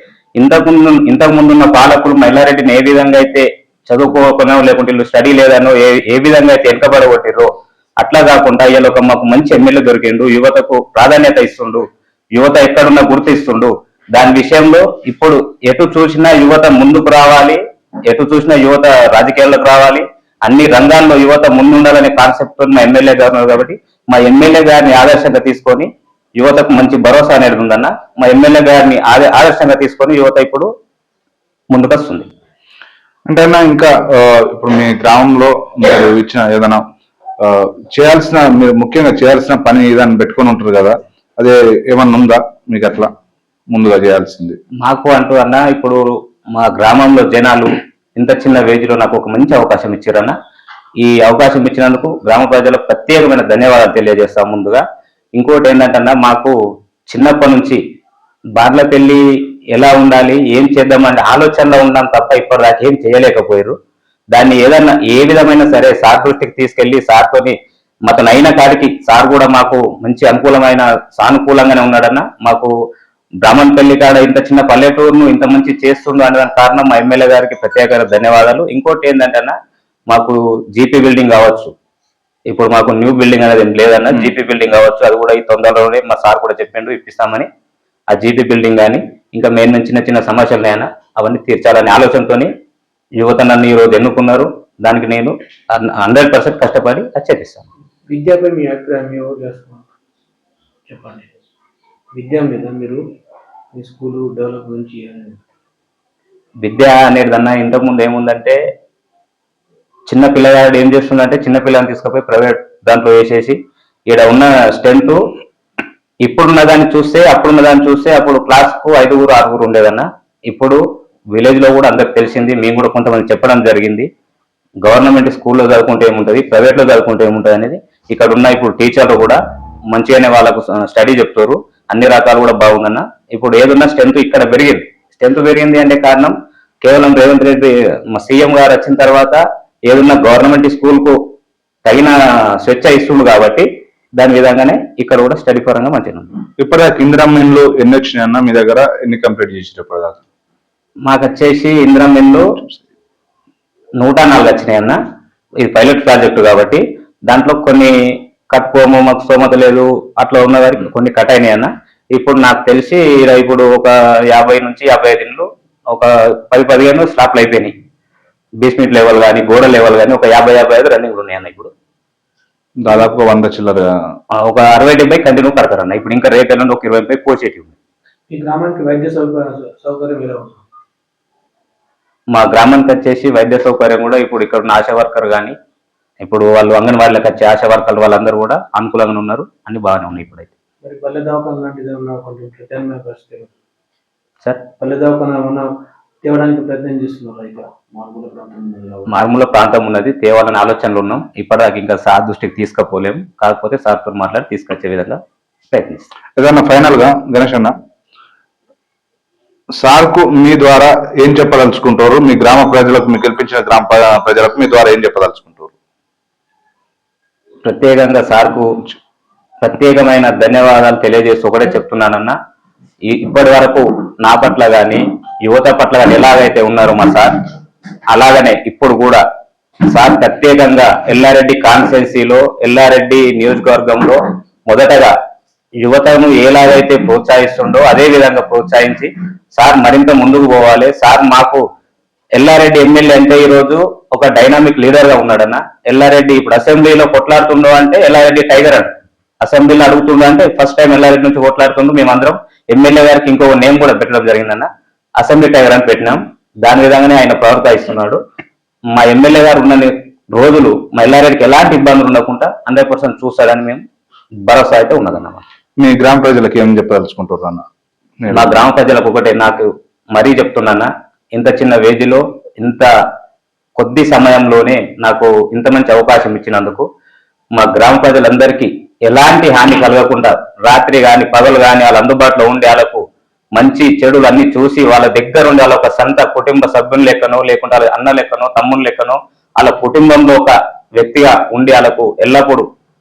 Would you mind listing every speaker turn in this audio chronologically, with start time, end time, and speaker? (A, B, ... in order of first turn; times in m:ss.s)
0:00.4-0:07.5 A
0:08.0-0:11.8 A
0:12.4-0:30.7 A
0:31.7-0:32.3 A
0:33.3-0:36.8 B
0:37.4-0:43.1 B
0:43.7-0:44.6 B
0:44.8-0:46.0 A
0:46.5-0:50.3 A
0:51.0-0:54.8 A
0:55.4-0:56.5 A
0:57.1-0:57.8 A
0:58.6-0:59.2 A
0:59.7-1:03.7 A
1:04.3-1:07.5 A
1:08.1-1:12.7 A
1:13.4-1:19.5 A
1:20.1-1:21.7 A
1:22.5-1:27.5 A
1:28.1-1:32.5 A
1:33.2-1:37.6 A
1:38.1-1:39.9 C
1:40.9-1:41.3 C
1:42.1-1:43.0 C
1:43.7-1:45.4 C
1:46.6-1:48.6 A
1:50.1-1:53.6 A
1:54.1-1:55.2 A
1:56.2-2:00.8 A
2:01.3-2:04.1 A
2:04.8-2:09.4 A
2:09.9-2:21.2 A
2:21.8-2:23.6 A
2:24.2-2:26.3 A
2:26.6-2:30.2 B
2:31.0-2:32.6 A
2:34.0-2:35.0 A
2:35.6-2:37.9 A
2:38.5-2:47.7 A
2:48.6-2:51.7 A
2:52.8-2:53.9 B
2:54.4-2:57.7 A
2:58.3-3:00.6 C
3:02.3-3:05.5 A
3:06.2-3:10.5 A
3:10.8-3:13.5 C
3:14.8-3:15.7 C
3:16.2-3:19.2 C
3:19.1-3:25.2 A
3:25.7-3:26.0 A
3:26.4-3:27.7 B
3:29.8-3:35.7 B
3:37.6-3:38.7 A
3:39.6-3:42.3 A
3:43.1-3:47.3 A
3:48.1-3:49.2 A
3:49.9-3:55.1 A
3:55.8-4:01.6 A
4:02.4-4:08.9 A
4:09.4-4:18.2 A
4:18.9-4:23.8 A
4:24.5-4:25.4 A
4:25.8-4:27.6 B
4:28.2-4:28.6 B
4:28.3-4:32.9 A
4:33.8-4:36.8 A
4:37.6-4:43.0 A
4:43.6-4:52.7 A